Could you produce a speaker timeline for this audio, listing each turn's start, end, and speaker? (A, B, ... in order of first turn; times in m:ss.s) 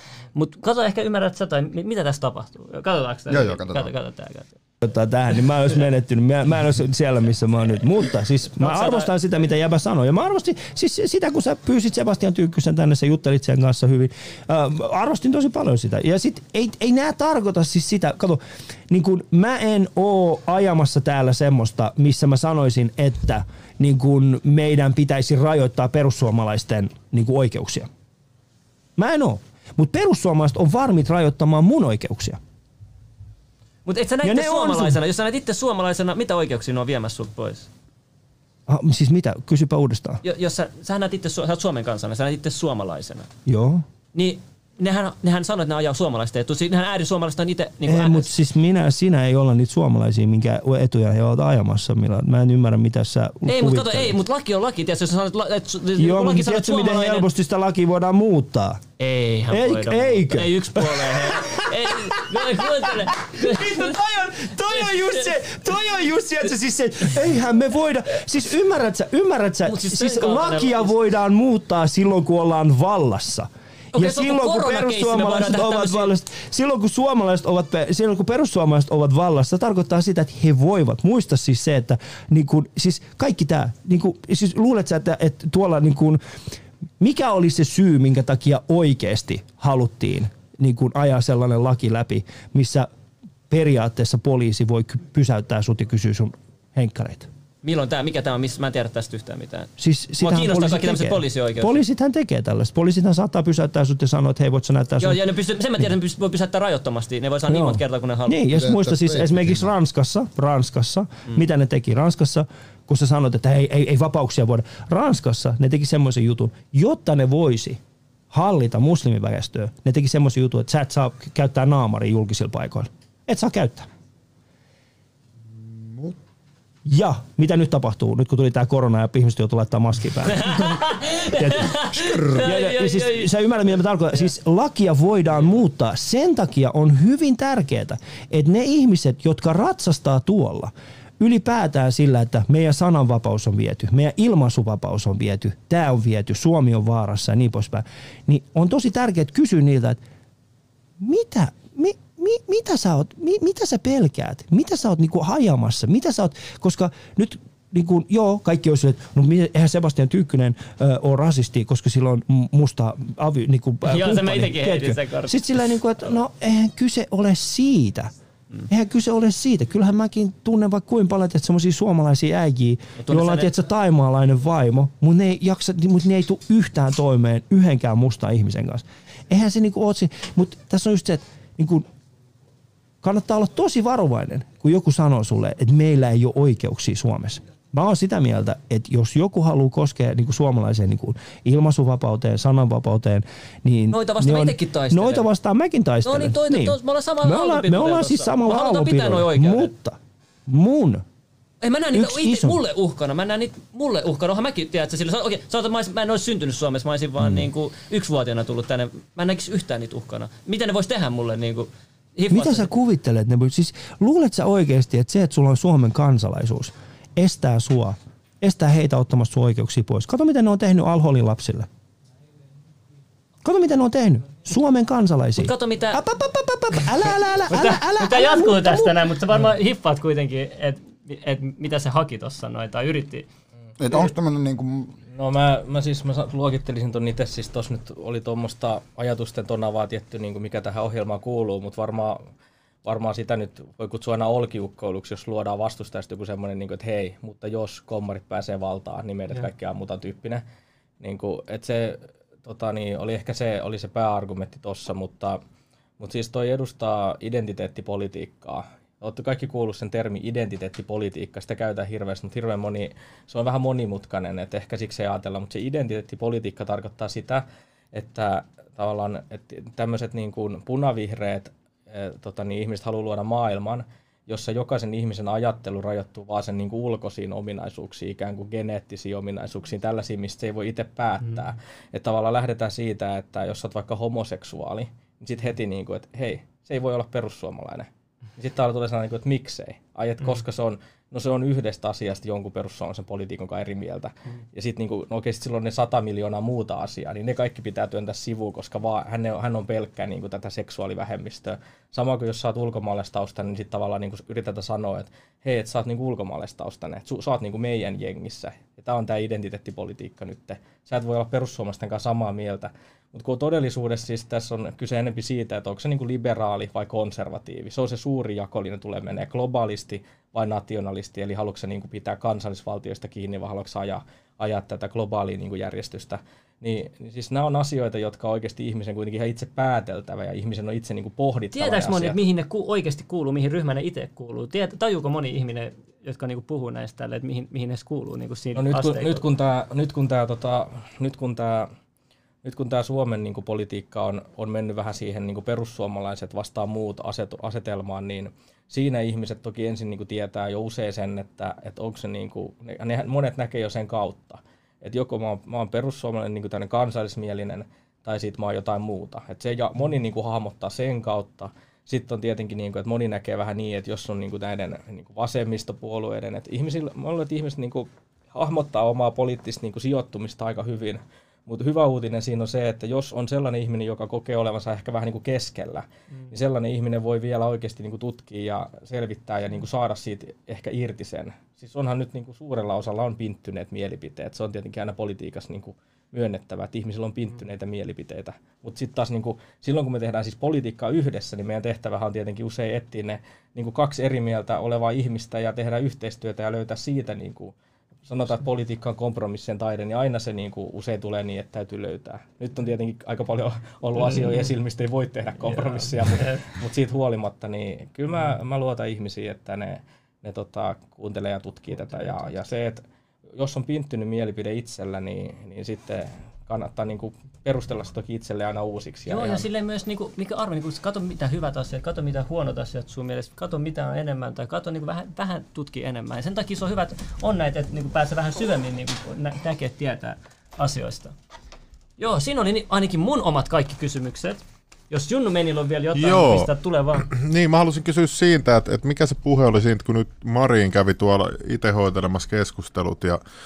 0:00.3-0:04.6 A
0:03.3-0:03.9 B
0:04.8-0:27.9 C
0:08.5-0:09.1 A
0:29.0-0:32.4 C
0:33.8-0:37.7 A
0:34.2-0:35.0 C
0:38.7-0:40.2 C
0:40.2-0:43.3 A
0:43.5-0:43.9 C
0:44.1-0:48.4 A
0:47.9-0:54.2 C
0:53.5-0:57.3 A
0:56.0-0:58.8 C
0:59.0-1:04.2 A
0:59.5-1:26.2 C
1:04.7-1:05.9 A
1:09.6-1:11.0 A
1:13.9-1:16.1 A
1:27.0-1:32.9 C
1:33.5-1:37.3 C
1:37.6-1:41.8 A
1:39.8-1:45.2 C
1:45.0-1:48.5 A
1:47.5-1:57.8 C
1:48.5-1:49.7 B
1:58.3-2:03.9 C
2:05.5-2:06.2 B
2:06.9-2:30.0 C
2:10.3-2:13.3 A
2:31.0-2:48.1 C
2:43.9-2:45.4 A
2:48.7-3:01.9 C
2:53.0-2:53.6 A
3:03.0-3:21.0 C
3:13.9-3:15.3 A
3:16.0-3:19.7 A
3:21.6-3:32.7 A
3:21.9-3:22.6 C
3:32.3-3:41.7 C
3:43.4-3:49.0 C
3:45.4-3:46.0 A
3:47.5-3:53.3 A
3:53.8-3:55.0 B
3:55.1-4:02.2 D
4:02.8-4:10.4 D
4:11.0-4:15.4 D
4:16.0-5:32.2 D
5:31.5-5:39.2 A
5:38.6-5:41.7 D
5:42.4-6:37.5 D
6:38.0-6:52.8 D
6:45.5-6:46.5 A
6:51.9-6:52.2 A
6:53.4-6:59.5 D
6:59.1-7:11.2 A
7:12.0-7:17.1 A
7:15.9-7:23.2 E